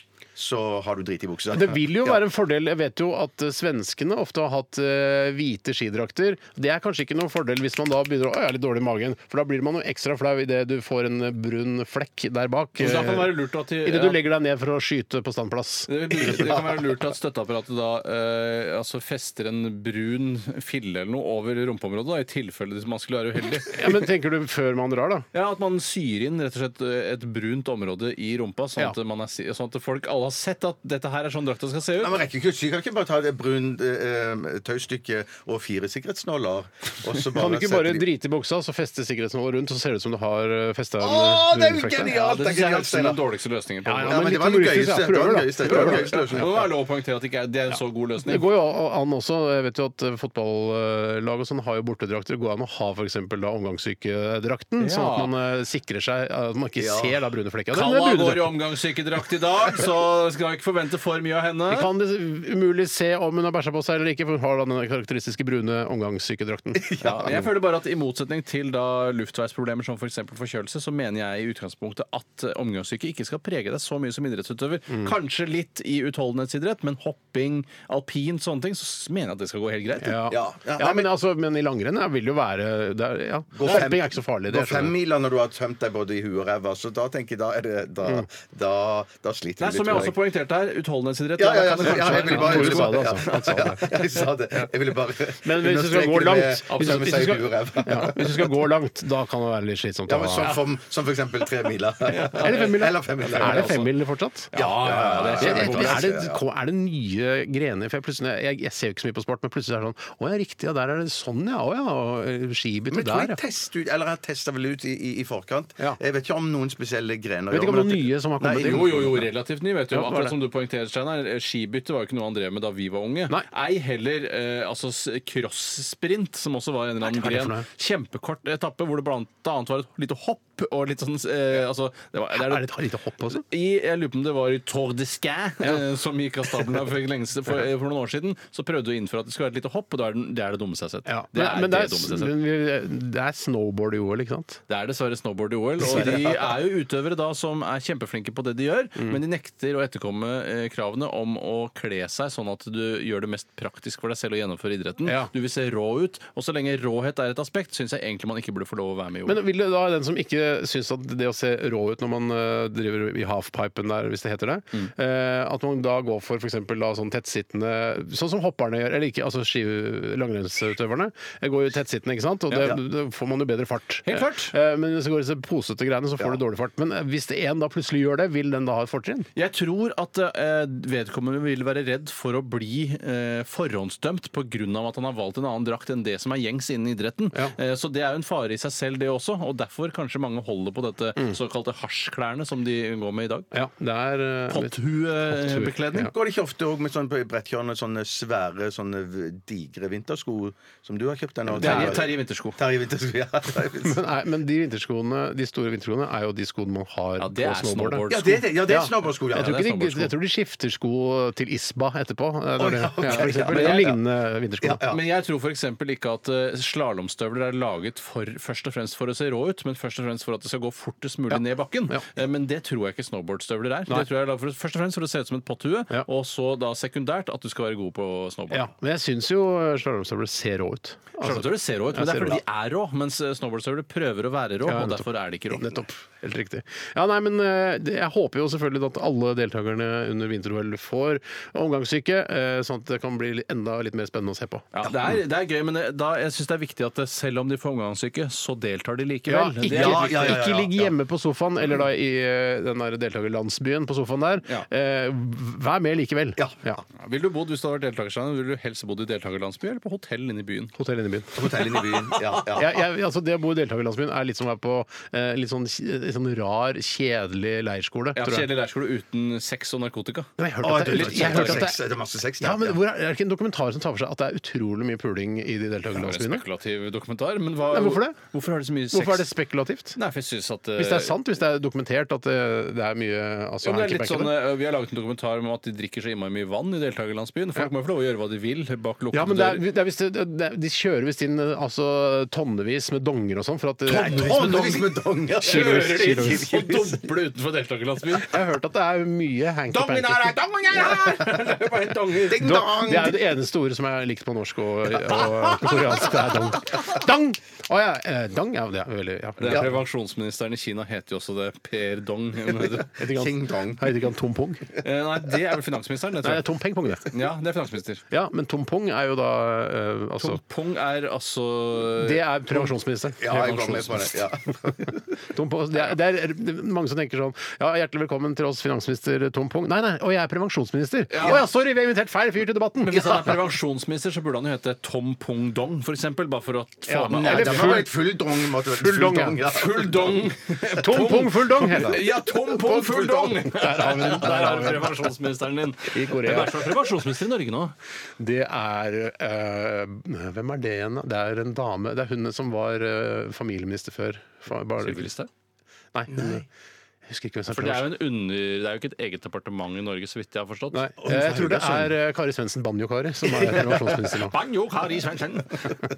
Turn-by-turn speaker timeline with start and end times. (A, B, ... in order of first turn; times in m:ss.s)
0:00.4-0:02.2 A
0:01.5-0:16.6 B
0:12.8-0:14.2 C
0:15.9-0:24.0 C
0:23.7-0:25.3 B
0:25.3-0:32.2 C
0:32.0-0:38.1 A
0:37.3-0:42.1 B
0:41.0-0:43.2 A
0:42.1-0:44.2 C
0:43.8-0:46.4 B
0:44.1-0:46.7 A
0:45.6-0:48.5 C
0:48.2-0:58.6 B
0:54.8-0:55.3 C
0:56.8-0:57.2 A
0:57.7-1:01.9 C
1:01.7-1:07.4 B
1:06.8-1:07.4 A
1:07.0-1:20.2 C
1:20.0-1:25.0 B
1:20.3-1:21.1 A
1:23.5-1:30.2 A
1:29.6-1:33.7 C
1:31.4-1:38.5 A
1:31.8-1:34.0 B
1:35.4-1:40.6 B
1:40.1-1:43.8 A
1:42.1-1:43.9 C
1:42.2-1:44.5 B
1:44.5-1:46.1 C
1:44.5-1:46.4 A
1:45.2-1:53.4 B
1:52.9-1:59.1 A
1:57.5-1:59.3 B
1:58.6-2:12.8 C
1:59.9-2:00.4 B
2:07.0-2:07.7 B
2:12.3-2:13.4 B
2:13.3-2:22.3 C
2:21.1-2:24.6 B
2:24.7-2:39.4 C
2:25.8-2:26.3 B
2:25.9-2:26.4 A
2:35.1-2:35.3 B
2:39.3-2:59.3 B
2:54.0-2:54.5 C
2:59.4-3:13.5 C
3:13.5-3:14.8 B
3:14.5-3:16.1 C
3:15.3-3:16.1 B
3:15.9-3:24.0 A
3:21.6-3:22.0 B
3:21.6-3:22.6 C
3:23.8-3:34.8 B
3:27.2-3:28.6 C
3:28.1-3:29.6 A
3:29.4-3:30.1 C
3:32.6-3:34.0 A
3:33.1-3:33.9 C
3:34.6-3:35.0 A
3:34.9-3:48.7 C
3:41.3-3:42.0 B
3:48.5-3:52.4 B
3:51.2-3:55.8 C
3:54.6-4:04.8 B
4:04.7-4:10.4 C
4:09.3-4:16.8 B
4:09.6-4:10.9 A
4:16.4-4:16.6 A
4:17.0-4:20.7 C
4:20.8-4:21.8 B
4:21.4-4:22.8 A
4:22.5-4:28.5 B
4:28.2-4:31.7 C
4:30.4-4:31.8 B
4:30.6-4:32.8 A
4:32.4-4:36.4 B
4:35.9-4:39.3 C
4:37.7-4:38.2 B
4:38.9-4:40.0 B
4:40.0-4:41.2 C
4:40.8-4:44.4 B
4:43.6-4:49.7 C
4:49.1-4:56.5 B
4:53.9-4:57.0 A
4:55.4-4:58.3 C
4:58.2-5:01.2 B
4:59.7-5:02.4 C
5:00.7-5:03.2 A
5:02.4-5:09.8 B
5:09.4-5:13.0 C
5:13.0-5:14.7 B
5:13.0-5:14.0 A
5:14.8-5:16.5 C
5:16.2-5:17.1 B
5:17.0-5:18.0 C
5:18.1-5:20.4 B
5:20.2-5:22.6 C
5:21.9-5:24.0 B
5:23.2-5:24.9 A
5:23.3-5:23.9 C
5:25.3-5:33.5 B
5:31.1-5:31.4 C
5:32.9-5:37.8 C
5:36.9-5:38.1 B
5:37.1-5:40.3 A
5:38.6-5:39.4 B
5:39.5-5:47.8 C
5:40.8-5:42.0 B
5:41.6-5:43.4 A
5:43.4-5:45.1 B
5:45.8-5:46.8 B
5:48.2-5:55.1 B
5:54.8-5:55.3 C
5:55.9-5:56.5 B
5:57.1-5:58.0 B
5:57.5-6:00.9 C
6:00.7-6:04.4 B
6:01.0-6:01.9 A
6:03.5-6:03.8 A
6:03.9-6:05.8 C